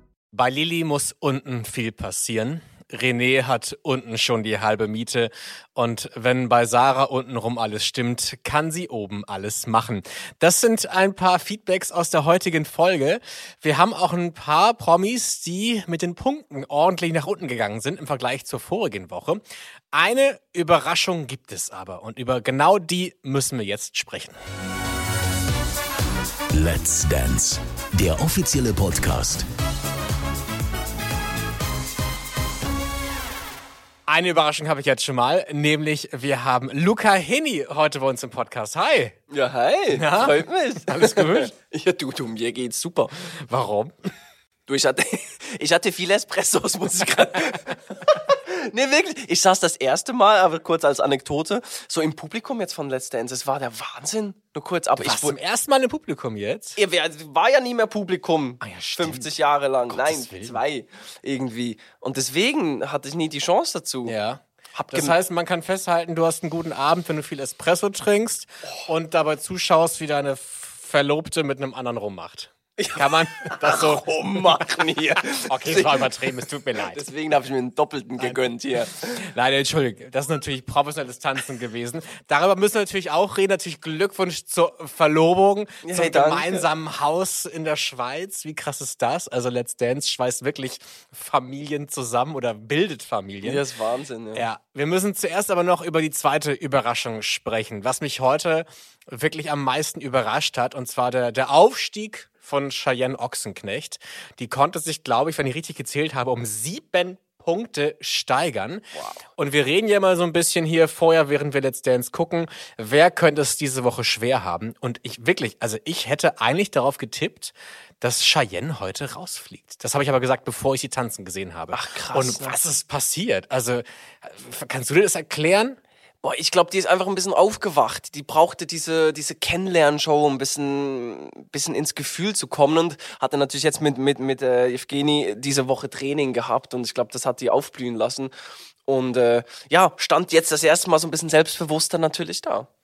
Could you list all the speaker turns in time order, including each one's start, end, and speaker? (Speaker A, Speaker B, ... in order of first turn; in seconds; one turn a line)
Speaker A: 0.3-24.4
Speaker B: 26.5-29.5
Speaker A: 34.1-39.2
Speaker C: 39.3-43.1
Speaker A: 39.9-41.5
Speaker A: 43.5-43.9
Speaker C: 44.7-55.4
Speaker A: 55.0-56.8
Speaker C: 56.8-64.2
Speaker A: 58.6-59.3
Speaker A: 59.9-60.6
Speaker A: 64.1-74.1
Speaker C: 64.8-65.1
Speaker C: 72.8-79.2
Speaker A: 75.2-77.0
Speaker A: 78.2-78.5
Speaker A: 79.2-93.6
Speaker C: 85.8-86.7
Speaker C: 93.4-94.4
Speaker A: 94.3-108.8
Speaker C: 108.9-109.2
Speaker A: 109.4-125.8
Speaker C: 121.7-122.6
Speaker C: 126.2-138.3
Speaker C: 138.9-142.7